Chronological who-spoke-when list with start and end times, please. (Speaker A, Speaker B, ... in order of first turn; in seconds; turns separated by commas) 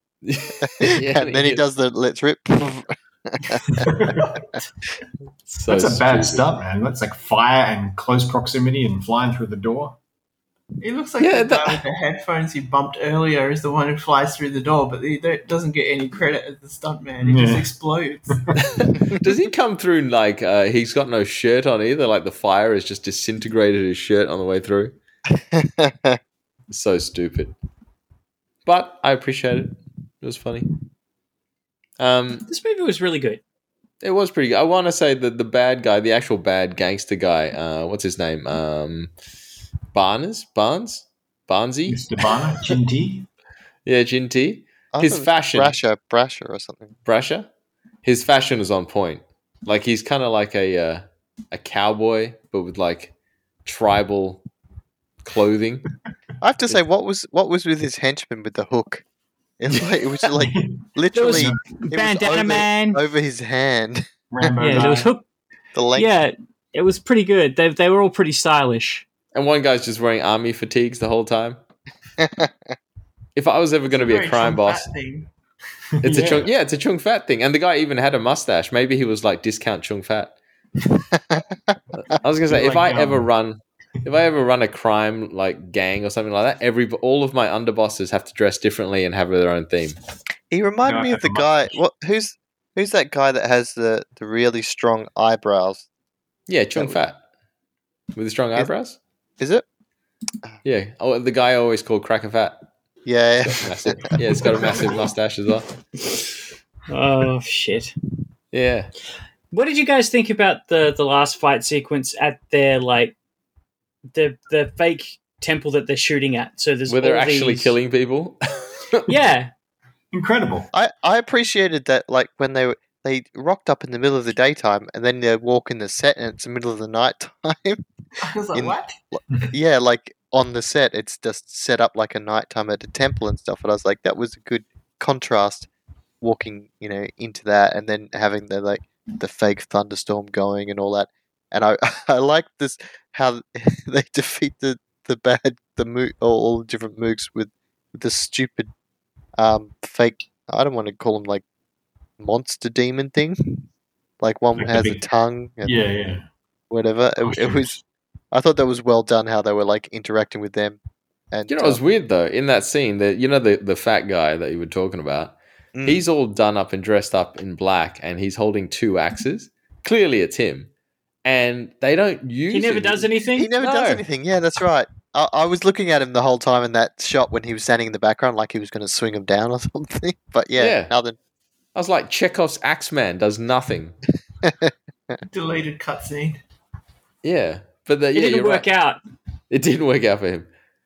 Speaker A: 0.2-1.6, Speaker B: 0.6-3.9, Speaker C: 3.7-4.3, Speaker A: 5.5-6.5, Speaker C: 5.7-10.0, Speaker D: 10.8-18.4, Speaker A: 11.2-11.8, Speaker C: 17.2-17.7, Speaker A: 18.7-24.9, Speaker B: 25.3-26.2, Speaker A: 26.7-27.5, Speaker A: 28.6-30.7, Speaker A: 32.0-32.5, Speaker E: 32.5-33.4, Speaker A: 34.0-39.1, Speaker A: 39.9-42.0, Speaker C: 41.9-43.3, Speaker A: 43.9-45.8, Speaker B: 44.9-46.9, Speaker A: 47.0-47.5, Speaker A: 48.0-53.1, Speaker A: 53.6-54.4, Speaker A: 55.2-55.8, Speaker B: 56.4-59.0, Speaker B: 59.6-64.5, Speaker C: 60.4-61.6, Speaker E: 61.1-63.0, Speaker C: 64.3-65.1, Speaker E: 64.6-65.2, Speaker B: 65.7-66.1, Speaker E: 65.9-69.0, Speaker A: 69.3-71.6, Speaker B: 72.2-72.5, Speaker A: 73.3-74.9, Speaker D: 73.9-75.3, Speaker C: 75.9-76.5, Speaker A: 76.0-80.3, Speaker B: 81.2-81.8, Speaker A: 82.1-90.0, Speaker C: 82.5-83.3, Speaker B: 90.5-95.8, Speaker C: 90.8-91.6, Speaker A: 96.5-97.2, Speaker B: 96.7-97.0, Speaker A: 98.1-99.0, Speaker B: 99.4-99.6, Speaker A: 100.6-102.6, Speaker B: 103.0-103.9, Speaker A: 103.6-105.7, Speaker C: 104.1-104.8, Speaker E: 106.9-107.9, Speaker A: 108.5-108.9, Speaker E: 109.5-113.2, Speaker E: 114.1-117.7, Speaker A: 116.9-119.0, Speaker E: 119.1-119.5, Speaker C: 120.1-120.7, Speaker B: 120.7-127.8, Speaker D: 128.2-128.9, Speaker B: 128.5-135.7, Speaker B: 136.2-148.7, Speaker B: 149.3-151.4, Speaker B: 152.2-153.7, Speaker B: 154.2-155.8, Speaker C: 154.6-155.0, Speaker C: 155.6-156.3, Speaker B: 156.7-157.8, Speaker C: 157.2-157.8, Speaker B: 158.3-160.8, Speaker B: 161.3-161.8, Speaker A: 161.5-170.7, Speaker B: 165.7-166.0, Speaker A: 171.2-174.0, Speaker E: 172.5-173.5, Speaker B: 173.3-181.2, Speaker A: 180.6-180.9, Speaker A: 181.7-183.9, Speaker B: 184.4-184.7, Speaker D: 185.2-186.4, Speaker A: 187.2-188.7, Speaker E: 188.1-189.0, Speaker A: 189.5-190.5